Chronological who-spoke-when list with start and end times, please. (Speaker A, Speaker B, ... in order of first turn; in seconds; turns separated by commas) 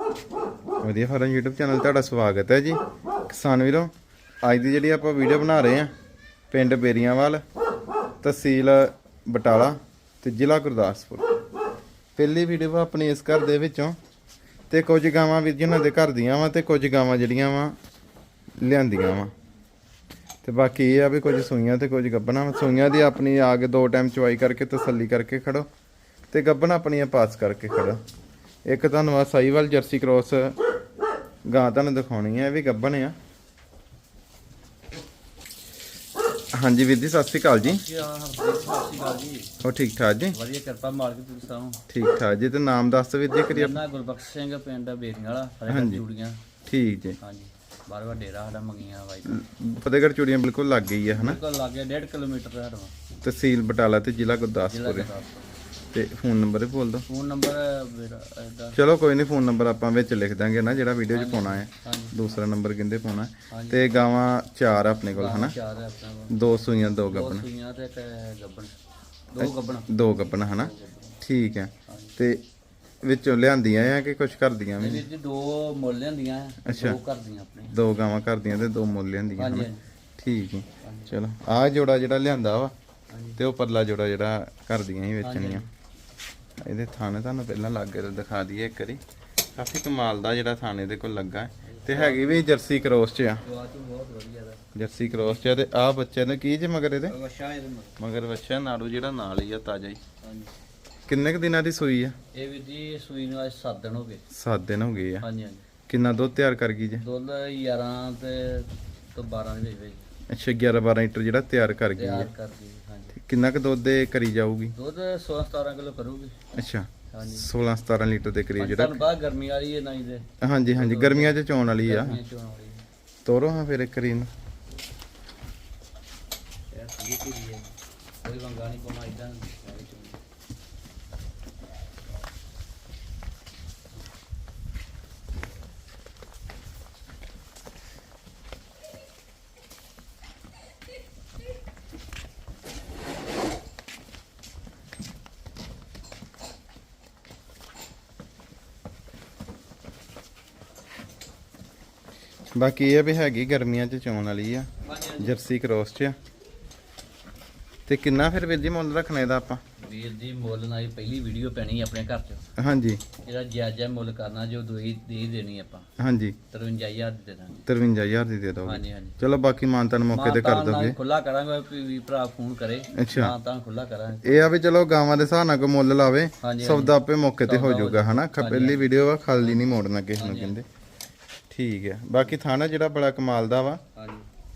Speaker A: 0.8-5.9, Speaker A: 6.5-7.4, Speaker A: 8.2-11.2, Speaker A: 12.2-13.9, Speaker A: 14.7-17.8, Speaker A: 18.6-19.3, Speaker A: 20.4-25.7, Speaker A: 26.3-28.0, Speaker A: 28.6-30.6, Speaker A: 31.4-33.1, Speaker A: 36.5-37.8, Speaker B: 37.6-39.5, Speaker A: 39.6-40.4, Speaker B: 40.3-41.8, Speaker A: 41.9-43.8, Speaker B: 43.5-46.4, Speaker A: 45.7-46.0, Speaker A: 46.6-47.2, Speaker B: 47.2-49.4, Speaker A: 49.2-51.4, Speaker B: 51.1-52.9, Speaker A: 53.2-55.1, Speaker B: 54.6-55.5, Speaker A: 55.9-57.0, Speaker B: 57.1-58.8, Speaker A: 58.7-65.5, Speaker B: 61.1-62.2, Speaker B: 63.5-64.1, Speaker B: 65.1-66.4, Speaker A: 66.3-67.5, Speaker B: 67.0-68.8, Speaker B: 69.3-69.9, Speaker A: 69.4-72.4, Speaker B: 70.5-71.2, Speaker B: 71.9-72.1, Speaker A: 73.0-75.1, Speaker B: 74.8-77.8, Speaker A: 76.6-77.0, Speaker A: 77.7-82.7, Speaker B: 79.3-79.8, Speaker B: 80.8-81.2, Speaker B: 83.1-83.4, Speaker A: 83.4-85.7, Speaker B: 85.2-85.7, Speaker A: 86.6-89.0, Speaker A: 89.5-93.4, Speaker B: 91.6-92.4, Speaker B: 93.4-95.6, Speaker A: 94.7-97.1, Speaker B: 97.1-98.0, Speaker A: 98.0-100.0, Speaker B: 100.2-100.5, Speaker A: 101.1-102.1, Speaker B: 102.3-104.2, Speaker A: 104.3-105.3, Speaker B: 105.2-105.7, Speaker A: 105.8-107.0, Speaker B: 107.0-110.0, Speaker A: 110.3-112.3, Speaker B: 112.0-113.2, Speaker A: 113.1-114.8, Speaker B: 114.8-116.4, Speaker A: 116.5-119.0, Speaker B: 117.1-117.5, Speaker B: 118.6-122.8, Speaker A: 120.4-122.2, Speaker A: 123.2-124.3, Speaker B: 126.7-127.7, Speaker B: 128.2-130.2, Speaker A: 152.5-156.1, Speaker B: 154.8-155.4, Speaker A: 157.9-159.6, Speaker B: 159.8-162.4, Speaker A: 162.6-163.1, Speaker B: 163.2-165.9, Speaker A: 166.0-166.4, Speaker B: 166.5-167.6, Speaker A: 167.7-171.0, Speaker B: 168.6-169.2, Speaker B: 170.1-174.5, Speaker A: 172.9-173.3, Speaker A: 174.2-180.7, Speaker B: 176.4-179.6, Speaker B: 180.2-180.5, Speaker A: 181.5-183.8, Speaker B: 183.9-184.3